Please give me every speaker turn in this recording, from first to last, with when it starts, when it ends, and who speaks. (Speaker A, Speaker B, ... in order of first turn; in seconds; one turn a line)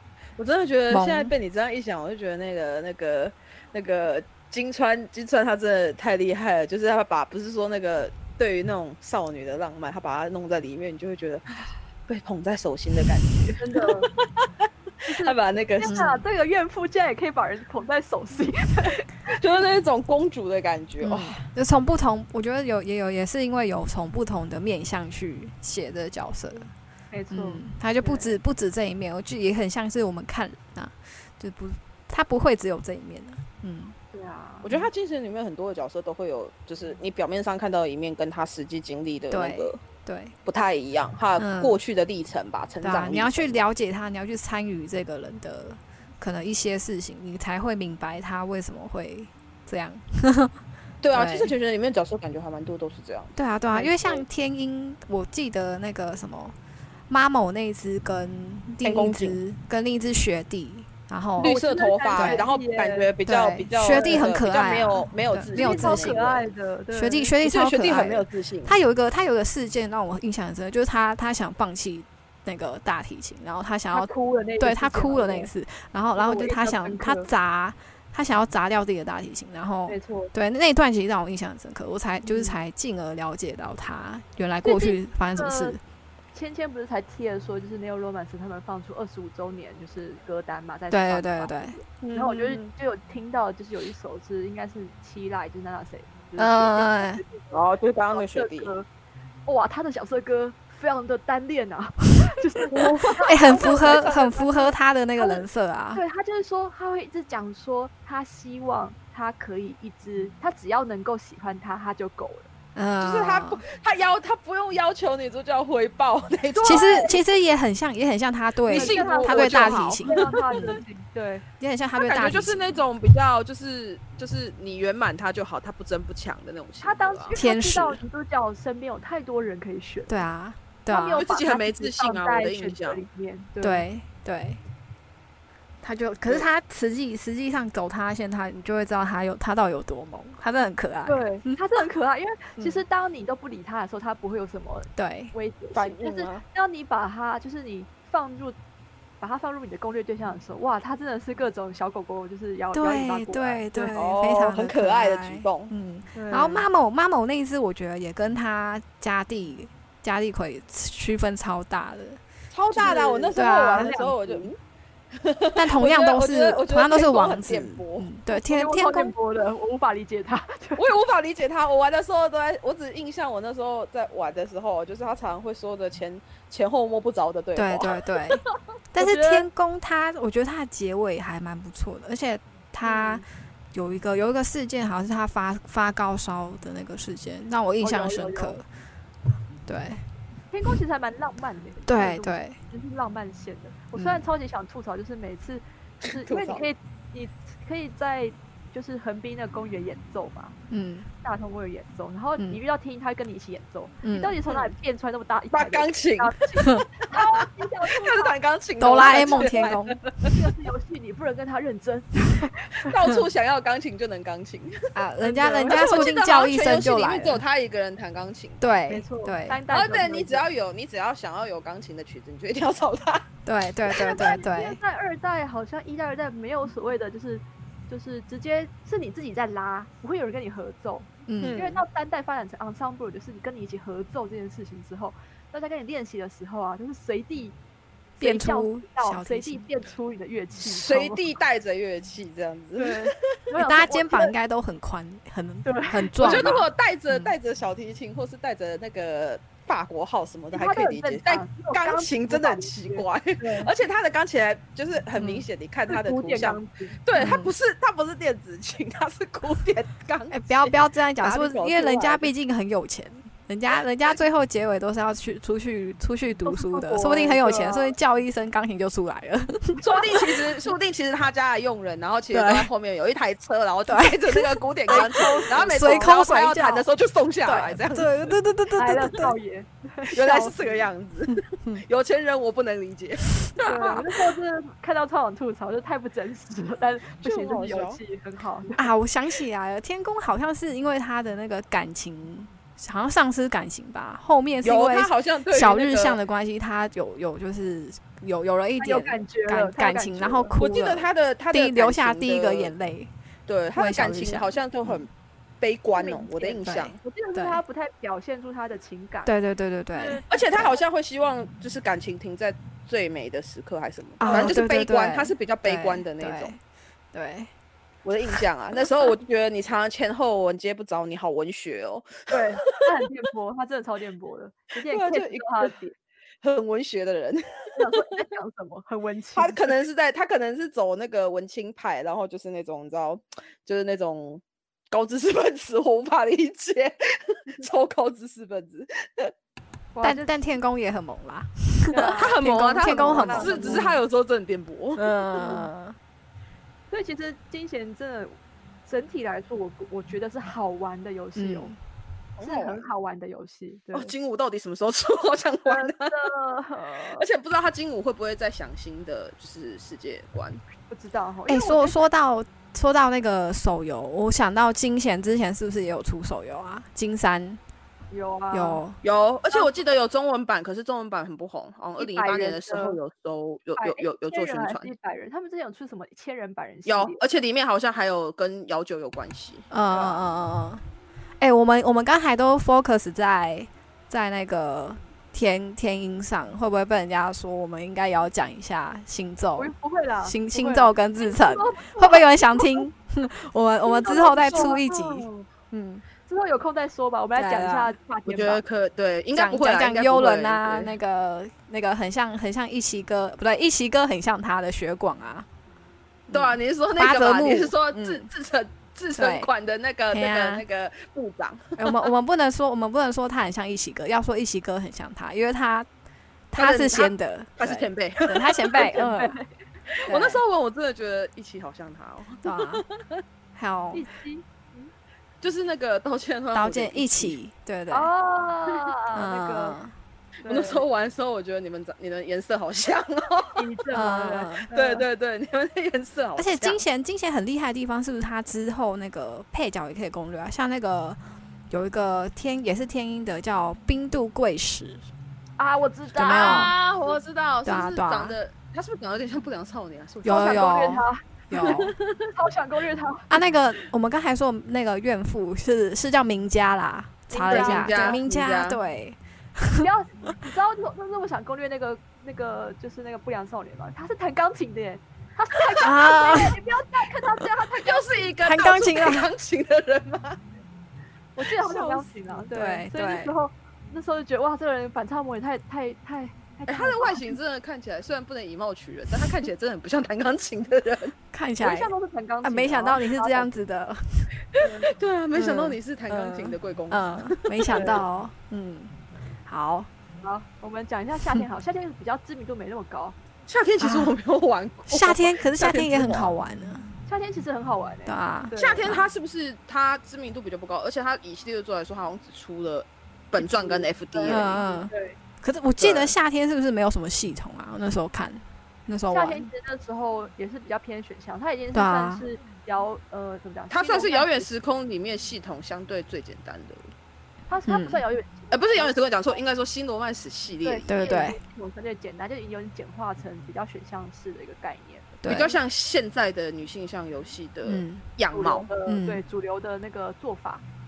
Speaker A: 0.4-14.7
Speaker B: 0.9-1.3
Speaker C: 13.6-14.1
Speaker C: 15.1-19.2
Speaker A: 15.2-16.0
Speaker B: 15.9-16.2
Speaker A: 19.4-21.4
Speaker B: 21.0-26.7
Speaker C: 27.1-28.4
Speaker B: 27.3-34.0
Speaker C: 34.1-34.7
Speaker A: 34.6-39.8
Speaker B: 39.3-40.3
Speaker A: 40.5-43.6
Speaker B: 41.4-41.8
Speaker B: 42.8-50.5
Speaker A: 51.0-54.2
Speaker B: 51.1-51.5
Speaker B: 53.4-56.5
Speaker C: 53.7-54.1
Speaker B: 57.1-61.5
Speaker A: 58.8-59.4
Speaker A: 61.4-66.4
Speaker C: 61.4-63.1
Speaker B: 62.2-62.5
Speaker B: 63.3-66.3
Speaker C: 63.9-64.3
Speaker C: 65.5-67.3
Speaker B: 66.9-85.8
Speaker A: 67.4-68.8
Speaker C: 73.9-75.5
Speaker C: 76.2-77.3
Speaker C: 79.9-80.3
Speaker C: 82.2-82.6
Speaker C: 84.6-85.8
Speaker C: 86.3-97.6
Speaker B: 90.9-91.8
Speaker A: 92.0-92.7
Speaker B: 96.4-97.2
Speaker A: 97.5-98.7
Speaker C: 98.1-98.9
Speaker C: 99.5-112.5
Speaker A: 102.7-104.1
Speaker B: 103.2-106.0
Speaker B: 112.8-113.6
Speaker A: 113.0-117.2
Speaker C: 116.5-117.2
Speaker B: 116.6-120.8
Speaker A: 118.7-120.8
Speaker C: 118.7-121.4
Speaker B: 121.6-122.7
Speaker A: 122.0-127.3
Speaker C: 126.8-130.3
Speaker B: 127.4-128.0
Speaker B: 130.1-131.2
Speaker C: 130.9-133.8
Speaker A: 131.1-133.0
Speaker B: 133.6-134.6
Speaker B: 135.8-141.6
Speaker C: 141.1-148.6
Speaker B: 145.0-145.3
Speaker A: 145.7-146.4
Speaker C: 149.2-154.0
Speaker B: 152.7-162.2
Speaker A: 153.9-155.7
Speaker C: 156.1-156.6
Speaker A: 162.5-164.6
Speaker B: 162.8-164.1
Speaker C: 162.8-164.4
Speaker A: 165.1-168.1
Speaker B: 165.6-169.1
Speaker C: 168.3-170.8
Speaker A: 170.8-178.1
Speaker B: 177.6-178.4
Speaker B: 178.9-188.7
Speaker C: 179.0-179.5
Speaker C: 182.8-183.2
Speaker C: 187.8-188.6
Speaker B: 189.7-190.0
Speaker C: 190.5-200.6
Speaker B: 191.9-192.6
Speaker B: 193.9-194.2
Speaker A: 196.1-196.7
Speaker B: 200.7-201.1
Speaker C: 201.2-208.3
Speaker B: 204.0-204.4
Speaker A: 205.5-206.5
Speaker A: 207.9-210.4
Speaker B: 208.8-210.0
Speaker C: 208.9-209.7
Speaker C: 210.3-212.9
Speaker A: 212.8-214.8
Speaker B: 214.9-217.4
Speaker C: 215.2-216.1
Speaker A: 215.7-218.6
Speaker B: 218.6-219.6
Speaker C: 218.9-220.4
Speaker A: 219.7-223.3
Speaker B: 223.5-224.8
Speaker C: 223.9-237.6
Speaker B: 231.3-231.6
Speaker A: 231.4-231.8
Speaker C: 238.2-241.3
Speaker B: 238.2-239.7
Speaker A: 240.6-243.1
Speaker C: 242.8-244.3
Speaker B: 243.6-247.3
Speaker C: 245.7-246.5
Speaker A: 246.2-262.3
Speaker C: 250.5-253.7
Speaker B: 255.2-255.4
Speaker C: 255.9-257.0
Speaker B: 257.2-257.5
Speaker B: 260.3-270.2
Speaker C: 266.5-267.9
Speaker A: 269.8-278.4
Speaker C: 269.8-270.2
Speaker B: 272.3-272.7
Speaker B: 273.9-276.9
Speaker C: 274.9-276.1
Speaker B: 277.5-279.3
Speaker C: 278.8-280.8
Speaker A: 280.1-284.0
Speaker B: 281.5-281.8
Speaker B: 283.6-283.9
Speaker C: 283.6-288.9
Speaker A: 287.2-288.0
Speaker B: 288.8-303.1
Speaker A: 294.6-296.2
Speaker C: 298.8-300.5
Speaker A: 300.6-302.7
Speaker A: 303.5-307.0
Speaker B: 303.8-304.5
Speaker C: 305.9-309.3
Speaker B: 306.6-307.6
Speaker B: 309.2-310.4
Speaker C: 309.9-310.3
Speaker A: 310.3-316.6
Speaker C: 314.2-314.6
Speaker B: 314.2-316.6
Speaker B: 317.1-317.5
Speaker A: 318.0-322.4
Speaker C: 322.3-326.0
Speaker A: 324.9-325.8
Speaker A: 326.4-328.0
Speaker C: 327.8-329.7
Speaker A: 329.4-339.3
Speaker C: 339.9-340.4
Speaker B: 340.0-343.9
Speaker C: 341.9-343.9
Speaker A: 342.2-345.7
Speaker B: 345.0-346.0
Speaker C: 346.9-351.7
Speaker B: 351.4-351.8
Speaker A: 352.4-352.9
Speaker C: 352.4-354.1
Speaker A: 353.9-356.3
Speaker C: 355.6-357.3
Speaker A: 357.2-360.6
Speaker C: 360.9-362.0
Speaker B: 361.5-367.6
Speaker C: 368.1-368.8
Speaker B: 368.5-369.0
Speaker A: 369.0-374.9
Speaker C: 372.0-373.0
Speaker C: 373.8-377.2
Speaker A: 376.9-379.7
Speaker B: 379.7-380.8
Speaker C: 379.9-380.2
Speaker B: 381.4-389.7
Speaker C: 389.6-392.9
Speaker B: 390.2-396.1
Speaker C: 393.8-395.5
Speaker C: 396.2-398.6
Speaker B: 397.4-398.0
Speaker A: 398.3-400.9
Speaker B: 399.3-405.5
Speaker B: 406.3-408.2
Speaker A: 406.3-412.0
Speaker B: 409.2-409.5
Speaker B: 410.1-410.6
Speaker B: 411.8-415.9
Speaker B: 416.5-419.4
Speaker A: 416.6-419.0
Speaker C: 418.8-419.6
Speaker A: 420.0-423.2
Speaker B: 420.1-420.4
Speaker B: 422.4-422.8
Speaker B: 423.6-424.0
Speaker C: 423.9-424.9
Speaker A: 425.4-427.4
Speaker B: 426.5-428.1
Speaker C: 427.9-429.8
Speaker B: 429.1-429.9
Speaker C: 430.4-430.9
Speaker A: 430.4-433.6
Speaker C: 433.6-435.0
Speaker B: 433.9-434.7
Speaker A: 434.7-436.8
Speaker B: 436.4-445.1
Speaker C: 445.6-446.8
Speaker B: 446.2-446.7
Speaker A: 446.2-450.8
Speaker B: 447.6-448.4
Speaker B: 450.2-451.9
Speaker C: 450.3-453.3
Speaker A: 451.5-452.2
Speaker B: 453.3-459.9
Speaker C: 457.3-458.2
Speaker A: 457.5-458.8
Speaker C: 459.8-468.4
Speaker B: 465.8-466.6
Speaker A: 467.8-470.4
Speaker B: 468.4-469.3
Speaker C: 471.4-477.4
Speaker A: 471.4-472.1
Speaker B: 472.5-473.3
Speaker A: 476.7-481.1
Speaker B: 481.3-481.9
Speaker C: 481.6-483.6
Speaker B: 482.4-484.3
Speaker A: 484.5-488.0
Speaker C: 484.6-484.9
Speaker B: 485.3-489.9
Speaker C: 487.7-488.0
Speaker C: 490.2-493.2
Speaker A: 493.5-496.4
Speaker B: 493.8-494.2
Speaker B: 494.9-496.9
Speaker C: 497.1-498.9
Speaker B: 498.1-499.1
Speaker A: 498.6-504.6
Speaker C: 503.4-505.2
Speaker B: 504.3-509.5
Speaker A: 505.8-506.2
Speaker C: 509.1-514.5
Speaker B: 511.7-512.2
Speaker A: 513.7-516.9
Speaker C: 517.5-519.4
Speaker B: 517.7-518.0
Speaker A: 518.5-521.2
Speaker C: 520.6-525.2
Speaker B: 520.9-521.4
Speaker B: 525.2-525.6
Speaker A: 525.3-528.7
Speaker B: 527.7-528.1
Speaker C: 528.3-530.6
Speaker B: 528.9-529.2